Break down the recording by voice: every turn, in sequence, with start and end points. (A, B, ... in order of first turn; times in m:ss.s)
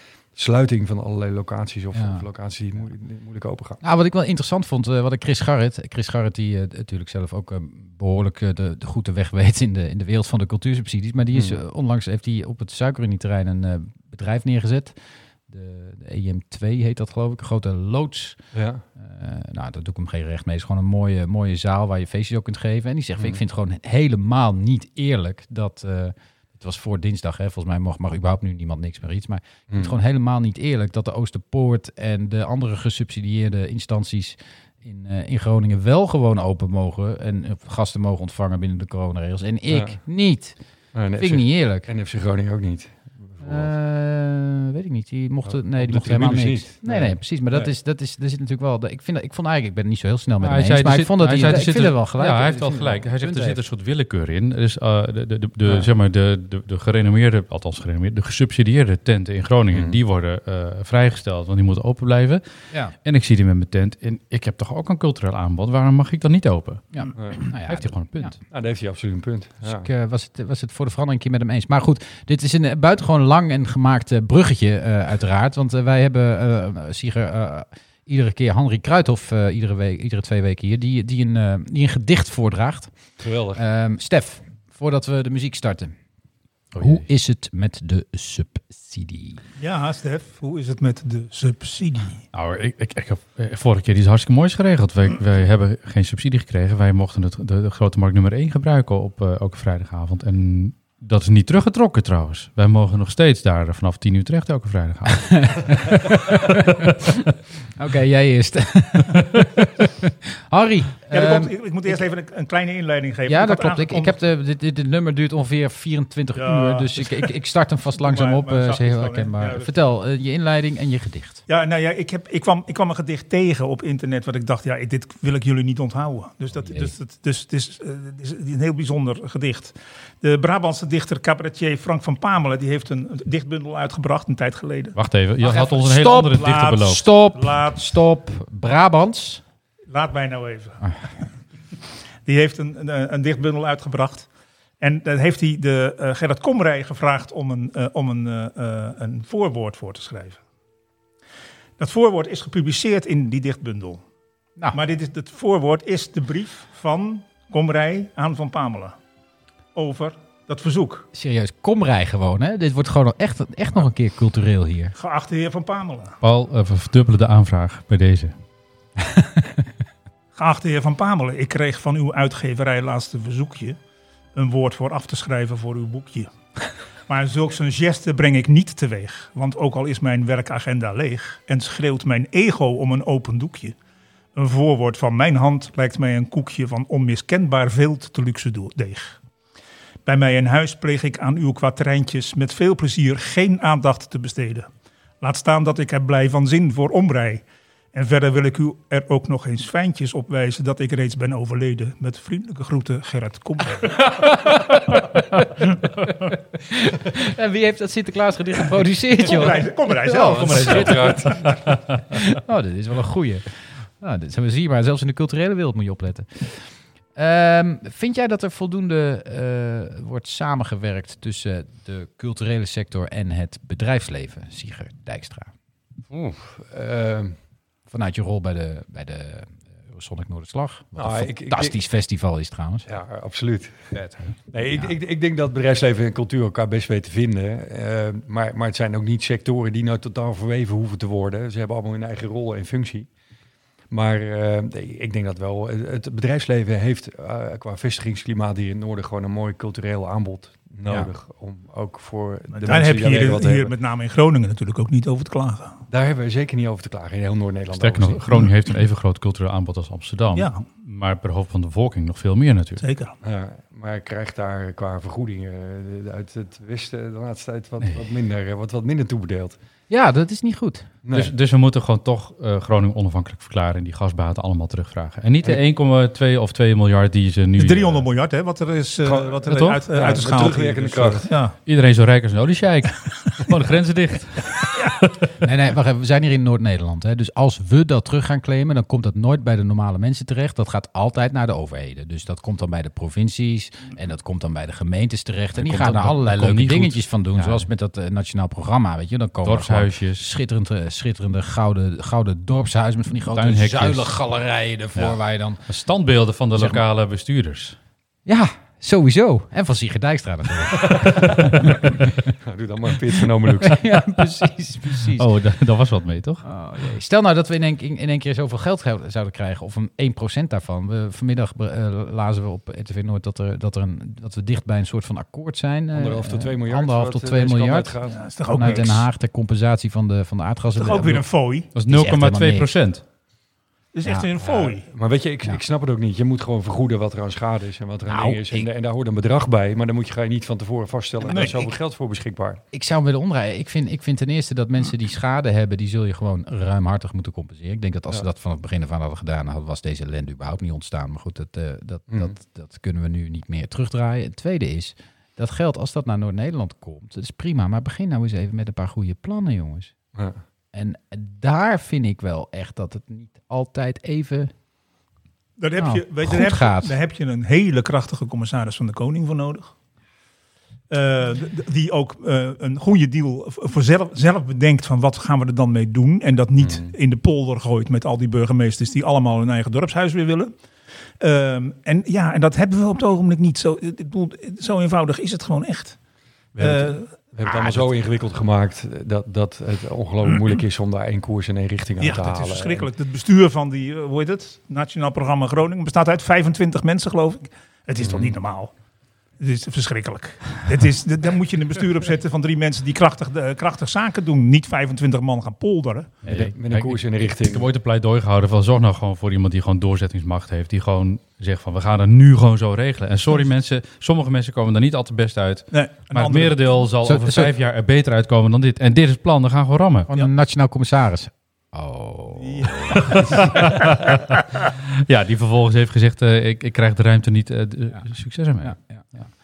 0:00.3-0:03.8 A
0:01.9-0:02.2 B
0:03.8-0:15.0 B
0:15.5-0:18.4 B
0:18.5-0:18.8 A
0:19.0-0:40.6 B
0:29.7-0:29.9 A
0:39.7-0:40.0 A
0:40.9-0:43.7 A
0:41.2-0:41.9 B
0:43.4-0:53.6 B
0:45.4-0:47.7 A
0:50.4-1:02.4 C
0:55.6-0:55.9 A
0:59.7-1:00.0 A
1:03.0-1:08.4 C
1:06.9-1:08.4 B
1:07.1-1:07.4 A
1:08.5-1:09.9 A
1:09.6-1:22.9 B
1:23.2-1:23.6 A
1:23.5-1:25.9 B
1:26.7-1:27.0 C
1:26.8-1:29.4 B
1:29.6-1:32.2 D
1:32.3-1:45.8 C
1:45.1-1:46.7 B
1:47.8-1:52.0 B
1:51.1-1:54.2 D
1:53.3-2:01.4 B
1:56.3-1:57.3 D
1:57.9-1:59.7 D
2:01.5-2:17.8 D
2:06.6-2:06.9 B
2:14.9-2:17.0 C
2:15.5-2:19.4 B
2:19.9-2:20.8 D
2:22.2-2:24.3 D
2:24.8-2:30.4 D
2:31.8-2:34.0 D
2:34.7-2:39.0 D
2:39.7-2:41.0 D
2:41.1-2:44.9 B
2:45.0-2:46.2 D
2:46.2-2:48.3 C
2:49.0-2:49.5 B
2:50.3-2:53.8 D
2:54.3-2:56.3 D
2:57.1-3:03.7 D
3:04.3-3:09.2 D
3:10.0-3:14.7 D
3:15.2-3:24.1 D
3:24.0-3:31.4 B
3:29.2-3:31.6 D
3:29.2-3:31.6 A
3:32.2-3:45.5 B
3:46.1-3:47.4 A
3:47.9-3:52.8 B
3:51.0-3:51.8 A
3:52.8-3:53.9 A
3:54.0-3:54.3 C
3:54.5-4:03.1 A
4:03.9-4:13.7 A
4:12.5-4:15.8 D
4:15.9-4:18.2 A
4:17.7-4:22.8 C
4:20.3-4:20.6 D
4:22.8-4:23.1 D
4:23.2-4:29.6 A
4:29.9-4:30.9 B
4:31.0-4:31.3 A
4:31.1-4:38.1 C
4:37.6-4:41.5 D
4:39.0-4:41.3 A
4:39.4-4:40.2 C
4:41.6-4:45.2 C
4:45.4-5:05.6 B
4:55.6-4:57.7 C
4:59.4-5:00.2 C
5:03.3-5:04.1 C
5:05.0-5:07.8 C
5:06.5-5:06.8 B
5:08.2-5:12.0 B
5:12.4-5:13.9 A
5:13.6-5:15.3 B
5:15.1-5:16.4 C
5:16.4-5:32.7 B
5:25.9-5:28.2 A
5:28.0-5:29.0 D
5:30.8-5:31.7 D
5:31.7-5:33.0 C
5:33.9-5:34.8 D
5:34.4-5:42.6 A
5:38.1-5:38.7 B
5:41.3-5:41.6 D
5:42.7-5:59.9 B
5:52.1-5:52.3 A
6:00.7-6:04.5 B
6:05.6-6:09.7 D
6:05.8-6:06.9 B
6:10.9-6:20.5 D
6:16.6-6:16.9 A
6:21.2-6:26.0 D
6:26.5-6:27.3 D
6:26.6-6:32.9 A
6:32.0-6:38.7 D
6:38.0-6:38.4 A
6:39.4-6:46.1 D
6:46.2-7:00.1 C
6:46.2-6:47.7 A
6:55.7-6:56.8 D
6:57.0-6:57.5 B
7:00.1-7:03.4 B
7:02.4-7:03.4 D
7:03.2-7:04.4 C
7:05.1-7:08.7 C
7:08.6-7:09.1 B